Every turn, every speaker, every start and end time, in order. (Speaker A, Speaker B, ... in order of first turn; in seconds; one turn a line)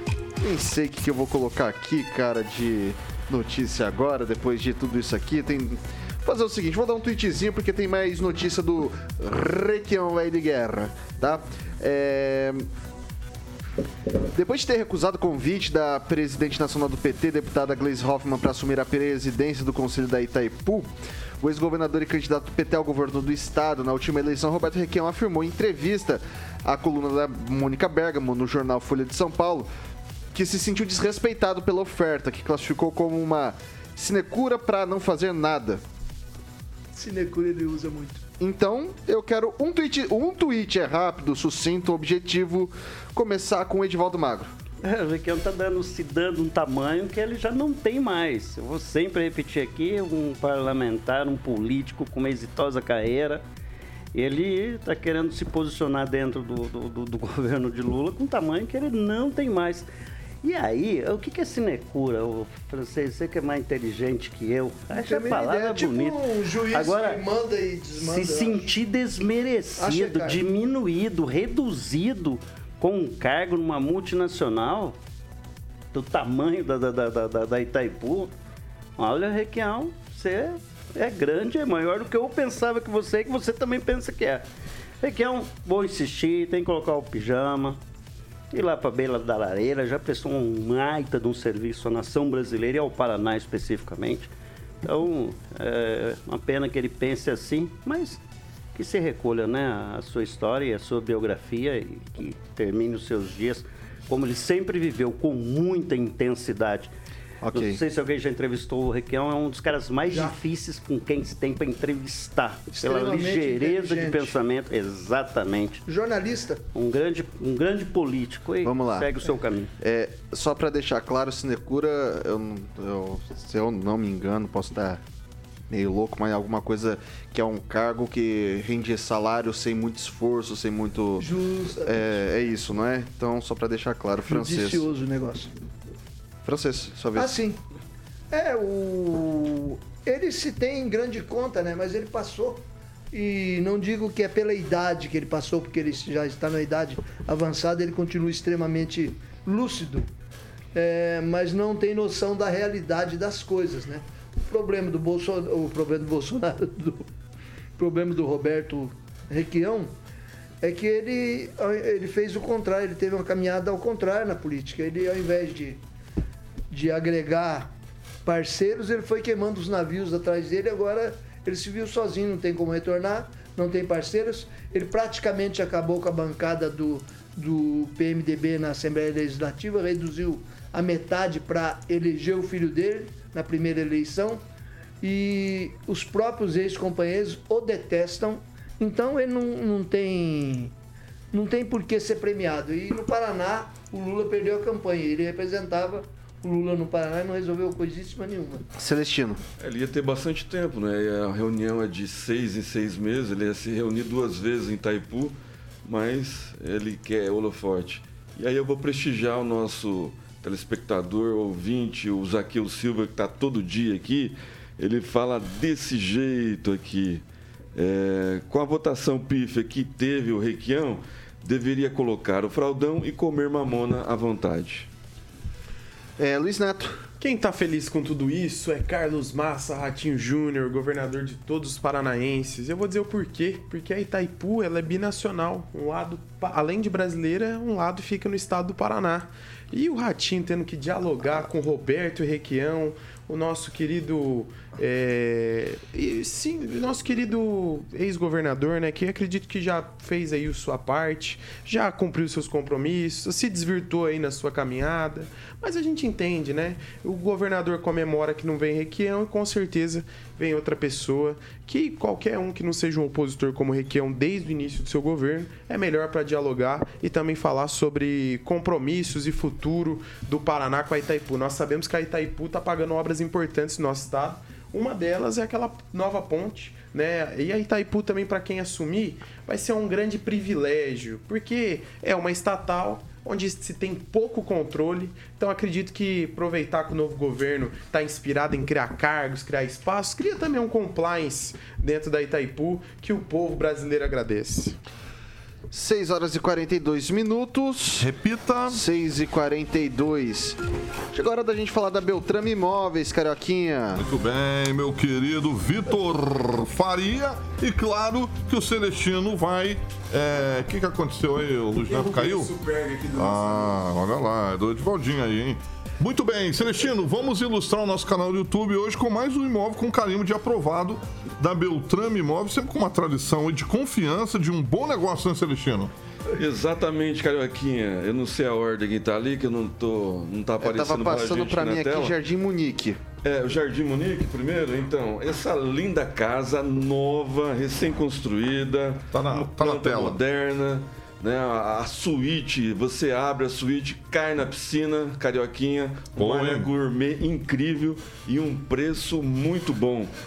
Speaker A: 0.4-12.7
Speaker A: 14.3-29.7
Speaker A: 30.3-35.8
Speaker B: 36.9-38.2
Speaker A: 38.4-44.5
Speaker C: 44.8-53.4
Speaker C: 54.1-59.9
Speaker C: 60.4-66.2
Speaker B: 64.9-68.7
Speaker C: 66.7-67.2
Speaker C: 67.9-74.9
Speaker B: 69.8-70.4
Speaker C: 75.9-78.3
Speaker C: 79.0-84.4
Speaker C: 85.0-87.8
Speaker C: 88.5-94.3
Speaker C: 94.8-98.2
Speaker C: 98.7-106.9
Speaker A: 107.4-107.8
Speaker C: 107.5-115.8
Speaker B: 110.1-110.3
Speaker B: 112.7-114.4
Speaker B: 115.9-116.6
Speaker C: 116.7-119.7
Speaker A: 118.6-119.1
Speaker A: 119.8-125.0
Speaker A: 125.7-131.3
Speaker B: 131.2-132.2
Speaker A: 131.8-134.9
Speaker B: 134.3-135.5
Speaker A: 136.4-137.3
Speaker B: 137.1-137.6
Speaker B: 138.3-150.1
Speaker B: 150.7-157.1
Speaker B: 157.8-159.9
Speaker B: 160.6-165.8
Speaker B: 166.7-167.7
Speaker B: 168.2-184.4
Speaker B: 185.0-190.7
Speaker B: 191.3-198.7
Speaker A: 198.8-199.4
Speaker D: 199.6-217.2
Speaker D: 217.7-224.9
Speaker A: 226.2-227.0
Speaker E: 227.2-294.8
Speaker A: 295.7-298.1
Speaker F: 298.0-298.8
Speaker A: 298.7-300.6
Speaker A: 301.1-304.0
Speaker F: 303.9-312.5
Speaker E: 311.9-313.9
Speaker F: 313.1-325.9
Speaker D: 326.3-332.1
Speaker A: 330.6-333.0
Speaker D: 333.2-350.1
Speaker F: 339.1-340.2
Speaker F: 346.2-346.7